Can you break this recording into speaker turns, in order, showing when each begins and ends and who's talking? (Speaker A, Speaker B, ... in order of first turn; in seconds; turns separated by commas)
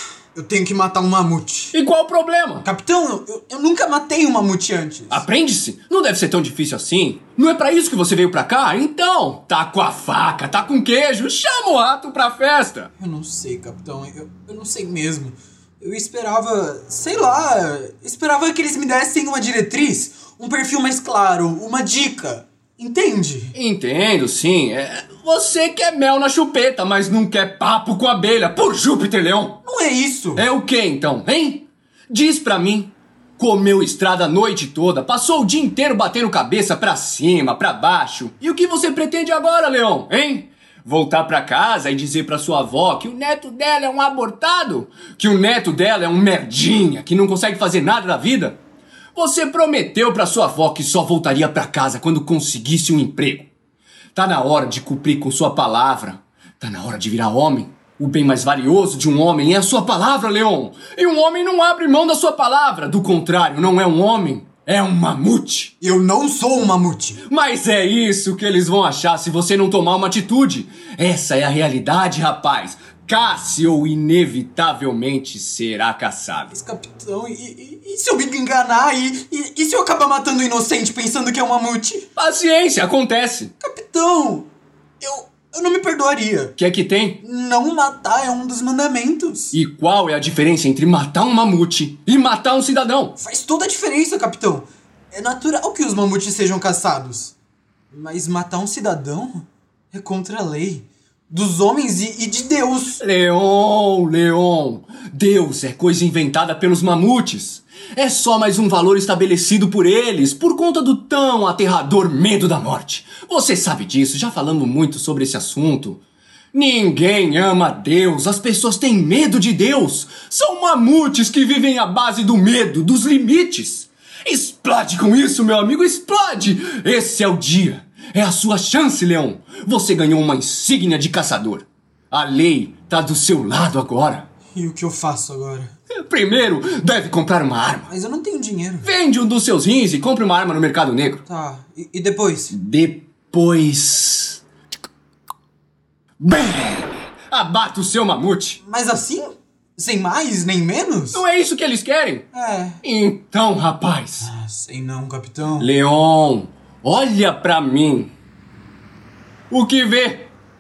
Speaker A: 0.3-1.8, Speaker B: 1.7-2.6, Speaker A: 2.6-5.2, Speaker B: 5.1-12.9, Speaker A: 13.0-23.5, Speaker B: 23.6-29.6, Speaker A: 29.6-30.4, Speaker B: 30.4-48.6, Speaker B: 49.1-53.5, Speaker B: 54.1-65.7, Speaker A: 65.8-67.2, Speaker B: 67.3-76.6, Speaker A: 76.5-82.1, Speaker B: 82.2-83.5, Speaker A: 83.6-84.5, Speaker A: 85.0-86.5, Speaker B: 86.6-87.2, Speaker A: 87.2-89.6, Speaker B: 89.5-93.2, Speaker A: 93.2-97.3, Speaker A: 97.9-103.0, Speaker B: 103.0-116.0, Speaker B: 116.5-134.3, Speaker A: 134.5-135.7, Speaker B: 135.9-137.9, Speaker A: 137.9-138.9, Speaker B: 138.8-141.2, Speaker A: 141.3-142.5, Speaker B: 142.5-144.4, Speaker B: 146.2-148.6, Speaker A: 148.6-151.2, Speaker B: 151.1-152.3, Speaker A: 152.3-152.8, Speaker B: 152.8-154.3, Speaker A: 154.2-155.7, Speaker B: 155.6-158.1, Speaker B: 159.5-160.3